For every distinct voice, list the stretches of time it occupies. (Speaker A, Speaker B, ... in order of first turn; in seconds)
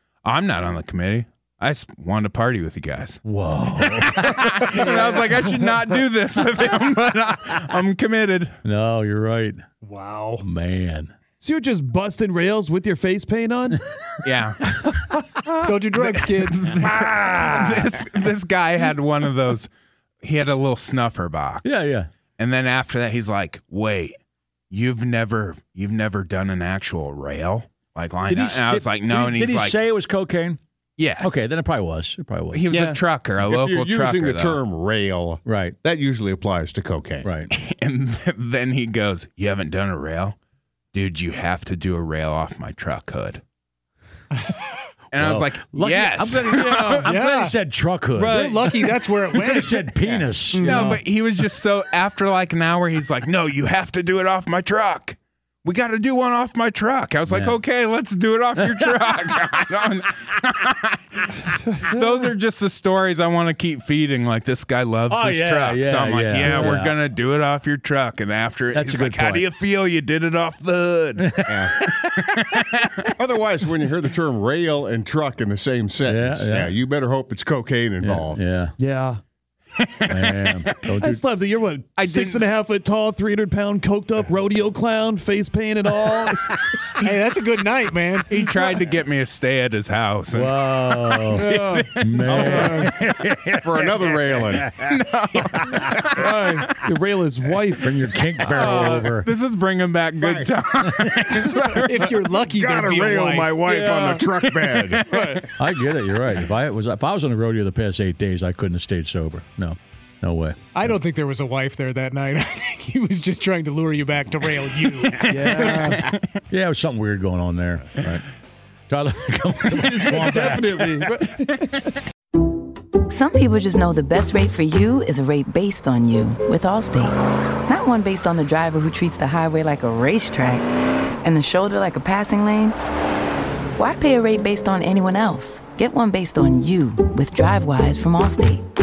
Speaker A: 0.2-3.2, 3.8-8.6, 14.2-14.6, 15.9-19.7, 20.2-21.7, 22.4-24.2, 24.7-29.8, 31.0-31.4, 32.5-34.6, 37.5-40.4, 40.9-43.4, 45.1-47.1, 50.6-71.3, 72.3-72.9, 79.8-80.8, 82.0-82.6, 88.3-92.7, 94.7-96.7, 98.4-102.3, 104.6-105.5
Speaker B: 3.2-4.8, 8.7-9.6, 10.4-11.1, 16.8-17.9, 21.6-22.1, 28.3-30.6, 31.2-32.6, 35.5-35.8, 37.2-37.5, 45.2-51.0, 57.3-57.6, 58.6-59.1, 65.1-67.0, 68.7-69.5, 71.2-72.1, 76.0-76.8, 78.0-78.7, 80.1-81.2, 90.3-94.9, 97.8-99.3, 105.6-111.0, 116.5-118.3, 118.9-120.9
Speaker C: 9.8-10.4, 15.7-16.6, 47.0-47.6, 48.2-49.9, 50.5-51.0, 87.0-88.4, 101.8-103.7, 110.8-115.9
Speaker D: 11.4-13.8, 46.5-47.0, 78.8-79.2, 80.9-86.6, 91.3-92.9, 96.2-98.0, 103.7-104.3, 105.0-105.5, 115.3-116.0, 119.7-121.9
Speaker E: 32.7-37.3, 71.5-71.7, 73.2-78.4, 92.3-92.7, 93.6-94.7, 100.2-100.5, 102.5-105.0
Speaker F: 123.1-127.2, 127.7-130.7, 131.2-132.7, 133.8-138.6